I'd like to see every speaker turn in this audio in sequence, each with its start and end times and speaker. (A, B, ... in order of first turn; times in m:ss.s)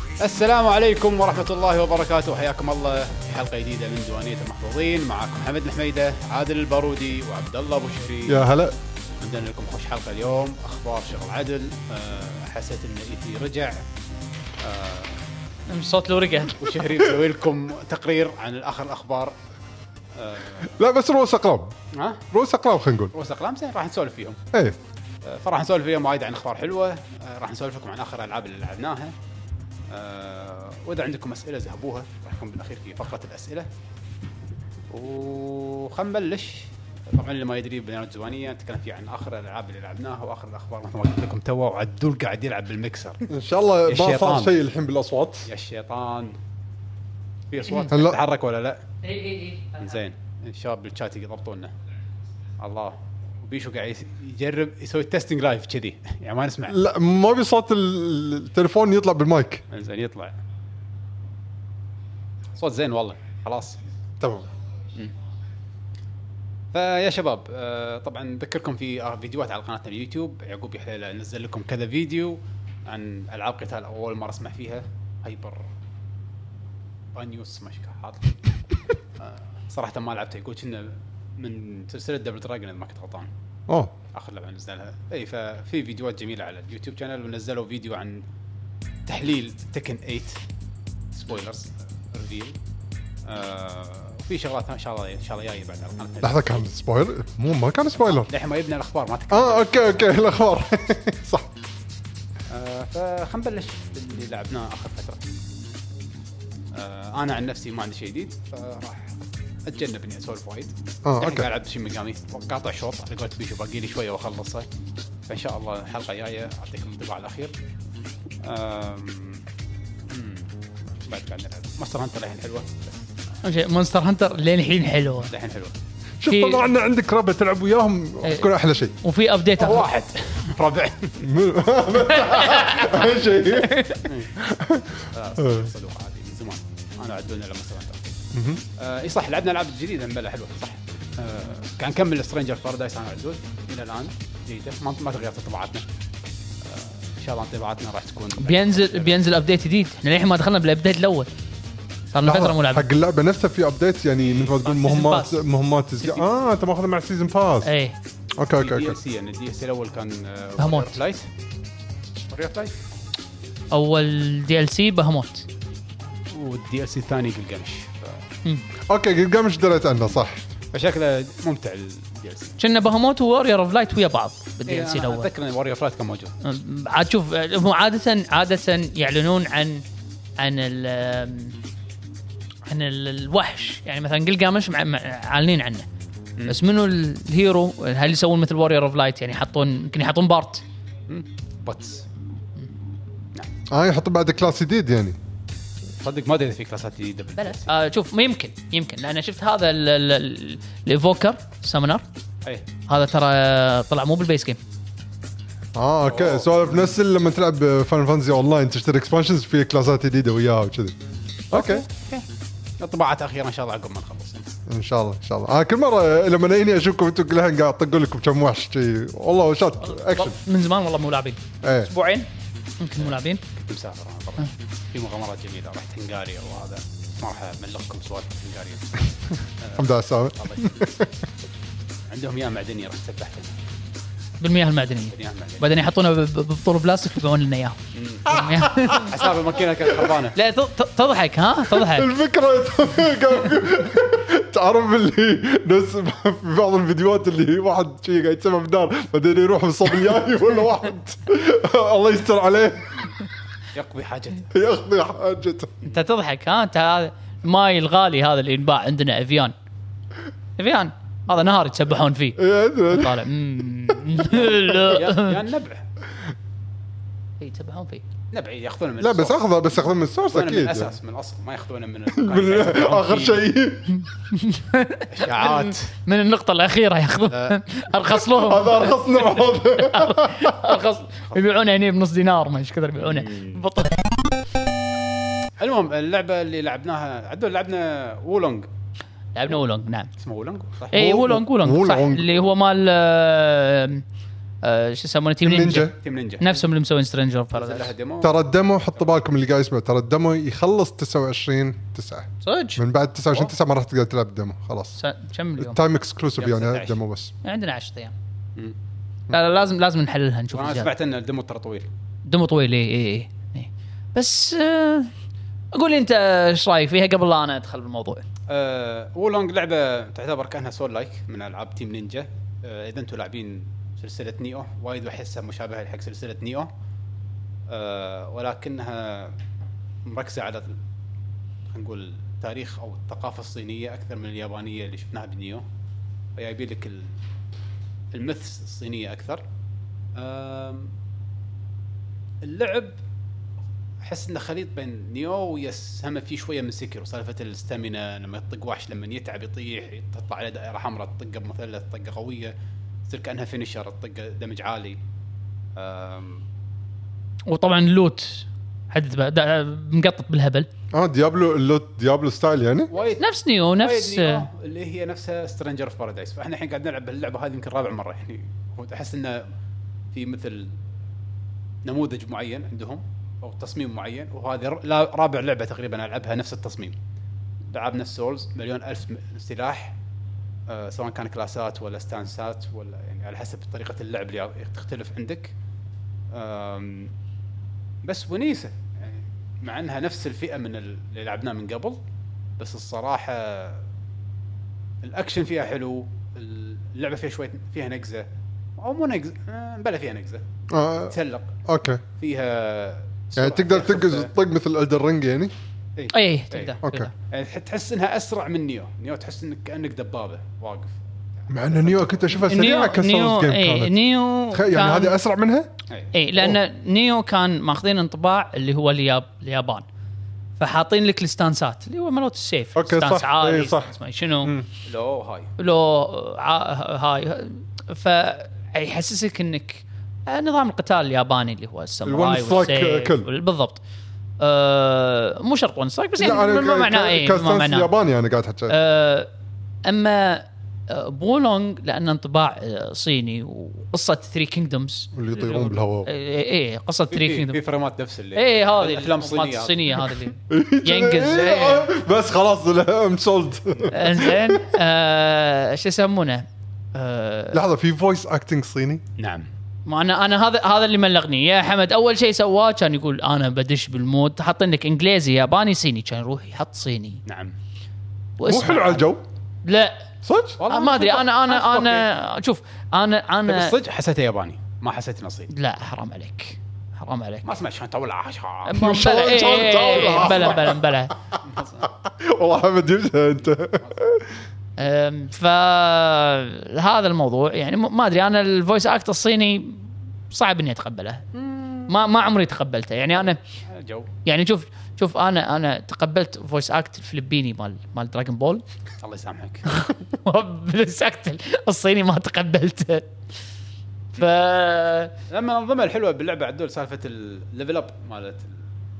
0:00.2-0:08.5 A
0:08.3-0:08.8 B
0:09.2-0:13.8 A
0:14.6-0:15.2 A
0:15.7-0:16.6 C
0:16.6-0:19.4 A
0:20.2-0:20.7 A
0:20.7-0:21.8 B
0:21.9-0:22.2 A
0:22.3-0:23.1 B
0:23.1-0:24.4 A
0:25.2-0:29.1 A
0:29.9-0:33.7 A
0:34.9-0:43.3 A
0:43.3-0:45.5 B
0:43.9-0:44.6 A
0:45.5-0:46.4 A
0:47.5-0:48.8 A
0:47.9-0:48.2 B
0:49.0-0:50.0 C
0:49.8-0:51.7 A
0:52.6-0:56.8 A
0:56.7-0:59.6 B
0:59.7-1:00.4 A
1:02.6-1:03.8 A
1:04.2-1:04.5 B
1:06.7-1:15.7 A
1:17.1-1:18.3 A
1:19.2-1:23.3 A
1:23.7-1:23.9 B
1:24.1-1:28.2 A
1:29.1-1:30.4 A
1:31.1-1:32.6 A
1:33.3-1:36.6 A
1:36.2-1:38.3 B
1:38.3-1:40.0 A
1:39.3-1:41.5 B
1:42.5-1:45.2 A
1:46.7-1:49.1 A
1:49.7-1:54.7 A
1:51.0-1:51.5 B
1:55.3-1:57.5 A
1:58.4-1:59.4 A
2:00.1-2:00.5 A
2:01.1-2:03.0 A
2:03.4-2:05.3 C
2:05.3-2:05.8 A
2:06.2-2:08.9 B
2:06.3-2:06.6 C
2:08.2-2:09.9 C
2:09.6-2:11.3 A
2:11.2-2:13.8 B
2:12.1-2:14.1 C
2:14.1-2:14.3 A
2:14.4-2:15.7 B
2:15.1-2:18.1 A
2:18.3-2:18.6 B
2:18.8-2:25.9 A
2:26.6-2:29.2 A
2:28.4-2:31.3 C
2:32.1-2:32.9 C
2:32.2-2:37.7 B
2:34.6-2:35.4 C
2:37.6-2:38.0 C
2:38.4-2:39.0 B
2:38.6-2:41.3 A
2:40.6-2:41.0 C
2:42.3-2:42.7 A
2:43.7-2:45.5 C
2:46.3-2:48.2 A
2:48.9-2:50.5 B
2:50.7-2:52.6 A
2:52.6-2:55.3 C
2:54.7-2:56.3 A
2:56.4-2:59.8 C
3:00.4-3:01.6 C
3:02.7-3:05.9 C
3:06.5-3:10.6 C
3:11.1-3:12.1 A
3:13.7-3:15.2 B
3:16.0-3:17.7 A
3:17.4-3:22.0 C
3:22.9-3:24.6 C
3:25.8-3:31.0 B
3:26.1-3:26.8 A
3:31.5-3:31.8 B
3:31.5-3:32.2 A
3:32.8-3:34.6 A
3:34.7-3:40.4 B
3:39.8-3:42.3 C
3:41.6-3:41.9 B
3:42.8-3:43.4 C
3:43.0-3:49.0 A
3:49.6-3:50.8 A
3:49.8-3:51.2 B
3:52.1-3:53.5 A
3:54.4-3:59.1 C
3:55.1-3:55.7 A
3:57.9-4:00.4 A
3:58.3-3:59.0 B
4:00.3-4:02.1 C
4:01.7-4:13.0 B
4:13.7-4:14.5 A
4:14.5-4:15.7 B
4:15.8-4:19.6 C
4:20.6-4:25.4 C
4:22.4-4:23.3 B
4:24.3-4:25.8 A
4:27.4-4:28.0 C
4:28.3-4:29.4 A
4:29.0-4:30.9 B
4:30.3-4:33.5 A
4:32.2-4:34.0 B
4:34.3-4:44.0 C
4:35.1-4:35.9 A
4:37.3-4:37.6 A
4:38.3-4:40.6 B
4:43.0-4:43.6 A
4:45.6-4:48.7 A
4:49.4-4:50.1 C
4:50.2-4:51.0 A
4:50.9-4:54.0 C
4:50.9-4:52.3 B
4:54.6-4:57.9 C
4:55.4-4:55.9 B
4:56.0-4:56.5 A
4:57.5-4:58.4 A
4:58.2-5:05.0 B
5:02.4-5:02.8 C
5:05.0-5:05.8 C
5:05.6-5:07.3 B
5:06.4-5:07.0 A
5:07.4-5:08.1 C
5:09.3-5:10.9 C
5:10.5-5:11.9 A
5:12.2-5:15.1 C
5:15.7-5:18.2 C
5:18.5-5:26.7 A
5:27.7-5:29.3 A
5:30.1-5:30.8 A
5:31.7-5:35.6 A
5:36.4-5:37.1 A
5:38.1-5:39.4 A
5:40.2-5:40.9 A
5:42.4-5:43.0 A
5:44.0-5:52.5 A
5:53.1-5:55.0 A
5:55.8-5:56.4 A
5:57.5-6:00.7 C
6:00.9-6:02.9 B
6:02.9-6:03.2 A
6:03.2-6:04.4 C
6:03.8-6:09.5 A
6:10.1-6:10.8 A
6:11.8-6:17.0 A
6:17.7-6:20.0 A
6:20.7-6:25.5 A
6:26.3-6:27.1 A
6:28.0-6:32.0 A
6:32.6-6:33.8 A
6:35.0-6:38.3 A
6:38.8-6:40.4 A
6:40.7-6:41.2 B
6:41.1-6:41.5 A
6:41.7-6:42.0 B
6:42.2-6:44.3 A
6:43.4-6:45.5 B
6:46.0-6:46.8 A
6:46.1-6:47.1 C
6:46.8-6:47.1 B
6:47.3-6:52.3 A
6:51.5-6:54.0 B
6:52.4-6:55.2 C
6:54.5-6:55.7 B
6:56.1-6:59.8 C
7:00.6-7:04.5 C
7:02.8-7:04.7 B
7:04.9-7:05.5 A
7:05.6-7:13.8 C
7:12.0-7:13.3 B
7:14.4-7:17.9 C
7:16.2-7:18.8 B
7:18.7-7:19.3 C
7:19.8-7:27.6 C
7:25.2-7:26.1 B
7:27.1-7:30.1 A
7:28.4-7:31.9 C
7:30.5-7:34.8 B
7:33.9-7:37.6 C
7:37.5-7:39.0 B
7:39.2-7:39.5 A
7:39.9-7:47.2 C
7:47.3-7:47.5 A
7:48.4-7:49.1 C
7:48.5-7:49.2 B
7:49.6-7:50.0 C
7:50.2-7:50.6 B
7:50.6-7:52.1 A
7:50.7-7:53.8 C
7:53.5-7:55.5 A
7:55.5-7:57.5 C
7:57.4-7:58.8 A
7:58.7-8:01.1 C
7:58.7-8:01.0 B
8:01.4-8:01.9 A
8:01.8-8:04.4 B
8:04.8-8:11.2 C
8:11.4-8:11.9 A
8:11.9-8:13.4 C
8:13.7-8:14.1 A
8:14.2-8:18.6 C
8:19.0-8:19.7 A
8:19.7-8:23.1 C
8:24.2-8:25.1 C
8:25.3-8:28.6 A